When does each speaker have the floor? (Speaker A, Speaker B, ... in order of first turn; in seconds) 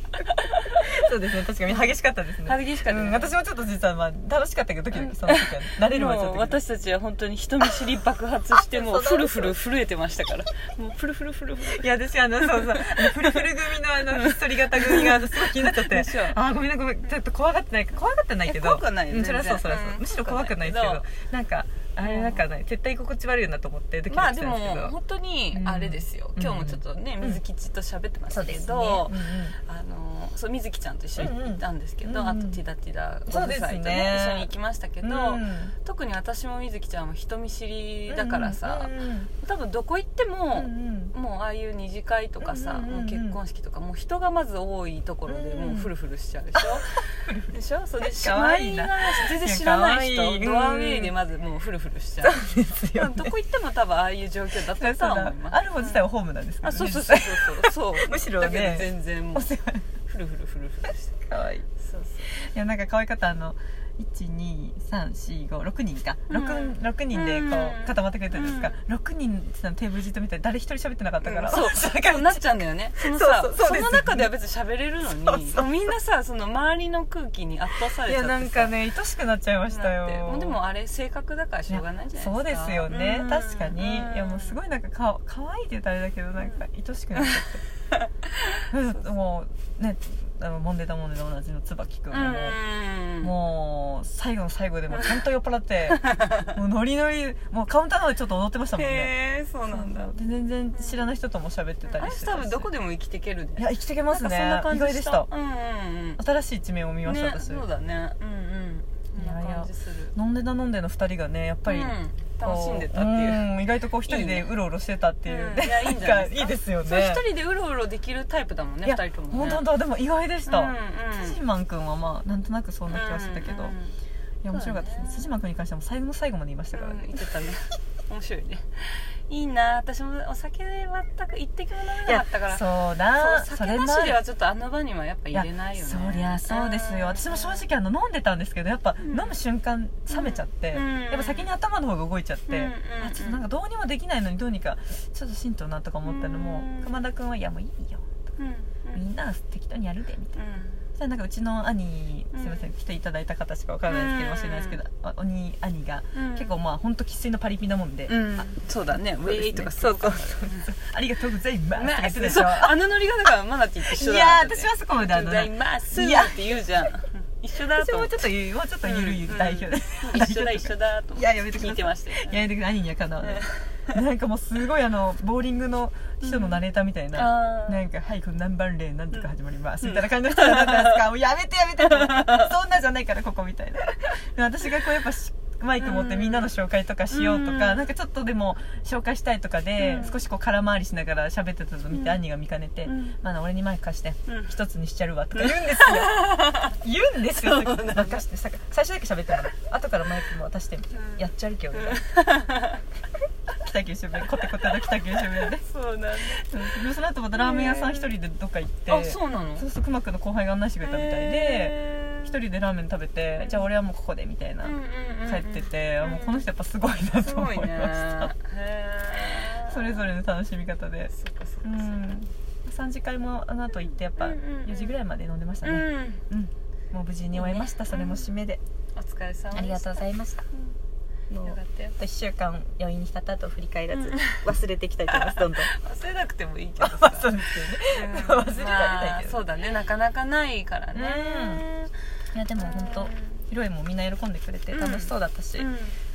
Speaker A: 0.2-0.9, 1.7-3.4, 4.9-11.9, 12.4-13.5, 14.0-16.4, 18.5-21.1, 22.0-22.4, 24.1-56.1, 56.6-59.5, 60.0-61.2, 61.8-62.4, 66.3-68.8, 71.2-78.8, 79.7-84.6, 86.4-86.6, 88.0-89.2, 92.1-93.3, 96.0-96.4, 98.8-100.1, 100.7-101.1, 101.8-106.2, 107.0-110.1, 111.7-113.5, 114.0-114.5, 115.2-119.6, 120.5-121.4, 122.9-124.0, 124.5-125.3, 126.7-137.7, 139.0-139.4, 140.1-141.5, 142.5-143.4, 146.1-147.0, 148.4-149.0, 150.4-150.8, 152.3-152.7, 153.9-154.8, 156.1-156.6, 158.1-160.7, 161.8-168.3, 168.8-172.4, 173.2-174.0, 176.2-176.6, 177.2-177.8, 179.8-181.0, 181.8-182.5, 185.8-186.5, 187.1-187.9, 189.8-190.2, 191.9-192.2, 192.9-193.2, 194.3-194.6, 195.4-196.8, 197.3-198.2, 200.9-202.8, 204.9-206.8, 207.4-208.2, 208.9-209.7, 210.8-212.4, 213.4-213.7, 214.6-216.5, 217.2-220.1, 221.1-222.2, 223.7-225.0, 225.6-226.2, 227.3-228.3, 228.9-230.8, 231.4-232.0, 233.9-234.4, 235.1-241.9, 242.6-243.4, 244.7-246.0
Speaker B: 0.7-6.6, 8.6-9.6, 11.6-24.9, 25.5-27.4, 28.3-29.6, 31.2-32.6, 33.3-35.7, 38.1-39.3, 40.5-41.1, 42.4-43.4, 45.3-45.9, 46.5-51.1, 52.2-53.4, 54.6-59.9, 61.3-61.6, 62.3-72.4, 73.0-74.3, 75.3-75.7, 78.0-80.6, 81.7-87.6, 88.7-92.6, 93.2-99.1, 99.7-102.7, 103.6-105.3, 106.2-107.7, 109.2-117.2, 118.8-123.8, 124.4-127.3, 132.1-134.2, 135.3-148.1, 148.9-158.5, 159.2-162.8, 163.9-166.6, 167.7-202.0, 203.5-205.6, 206.2-218.3, 219.4-221.1, 221.6-228.6, 229.5-230.4, 231.3-235.7, 236.8-239.4, 240.9-241.7, 242.3-245.7